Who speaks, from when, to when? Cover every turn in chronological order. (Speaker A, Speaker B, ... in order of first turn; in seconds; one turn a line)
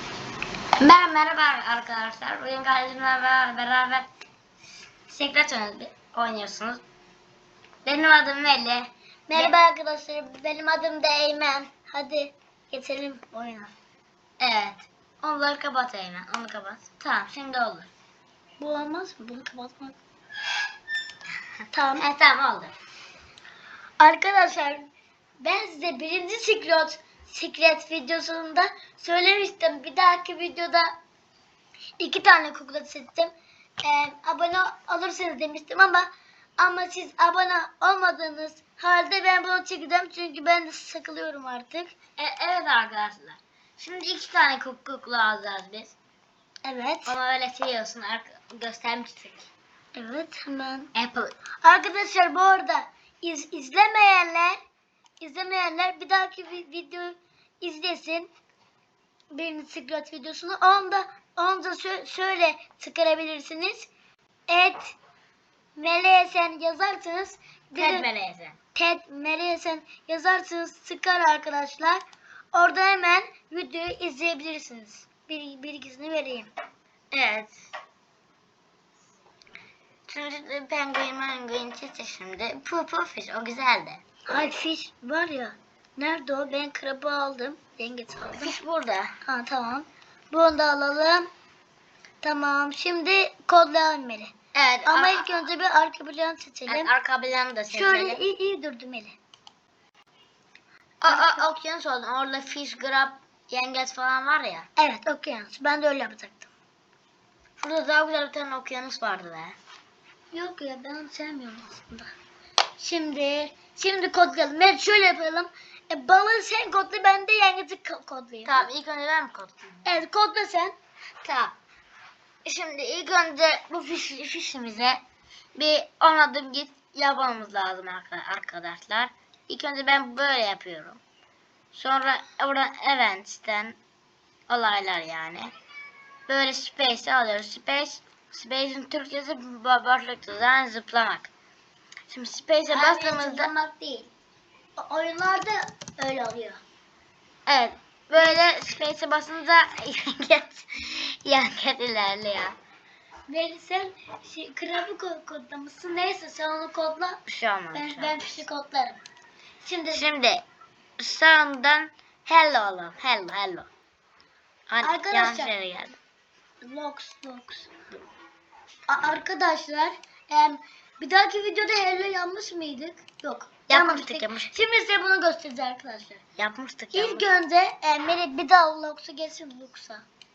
Speaker A: 0.8-4.1
Speaker A: 5.1-6.8
Speaker A: 7.8-9.5
Speaker B: 9.3-13.7
Speaker A: 14.4-17.9
Speaker B: 18.6-20.0
Speaker B: 21.7-22.1
Speaker A: 22.0-22.7
Speaker B: 24.0-30.9
Speaker B: 32.0-33.3
Speaker B: 33.8-42.0
Speaker A: 42.2-46.0
Speaker B: 46.6-47.1
Speaker A: 47.1-49.5
Speaker B: 50.0-50.9
Speaker A: 50.9-51.4
Speaker B: 51.6-54.6
Speaker B: 55.2-58.3
Speaker B: 59.3-63.9
Speaker B: 64.5-64.9
Speaker B: 65.8-68.1
Speaker A: 67.8-68.6
Speaker B: 68.8-72.0
Speaker B: 72.5-76.5
Speaker A: 77.1-77.7
Speaker A: 80.1-84.0
Speaker B: 84.3-88.5
Speaker A: 88.4-89.1
Speaker B: 89.2-91.3
Speaker B: 92.2-94.3
Speaker A: 94.5-95.5
Speaker B: 94.9-96.9
Speaker A: 96.7-98.2
Speaker B: 97.7-99.2
Speaker A: 101.0-104.7
Speaker B: 101.1-101.5
Speaker B: 104.8-106.5
Speaker A: 107.6-109.6
Speaker B: 110.3-112.1
Speaker B: 112.8-118.7
Speaker A: 118.5-119.9
Speaker B: 119.8-120.8
Speaker A: 121.2-121.6
Speaker A: 122.5-125.0
Speaker A: 125.5-131.0
Speaker A: 131.7-133.8
Speaker A: 134.5-135.5
Speaker A: 136.3-141.3
Speaker A: 142.1-143.5
Speaker B: 142.7-144.1
Speaker B: 144.8-146.6
Speaker A: 147.5-152.6
Speaker B: 148.2-148.5
Speaker B: 153.3-157.2
Speaker A: 157.3-158.4
Speaker B: 157.7-159.0
Speaker B: 159.6-160.1
Speaker A: 159.9-160.4
Speaker A: 161.0-163.7
Speaker A: 164.7-166.0
Speaker B: 164.8-165.5
Speaker B: 166.6-167.7
Speaker B: 168.9-176.2
Speaker A: 173.7-174.5
Speaker A: 176.4-177.3
Speaker B: 176.9-180.1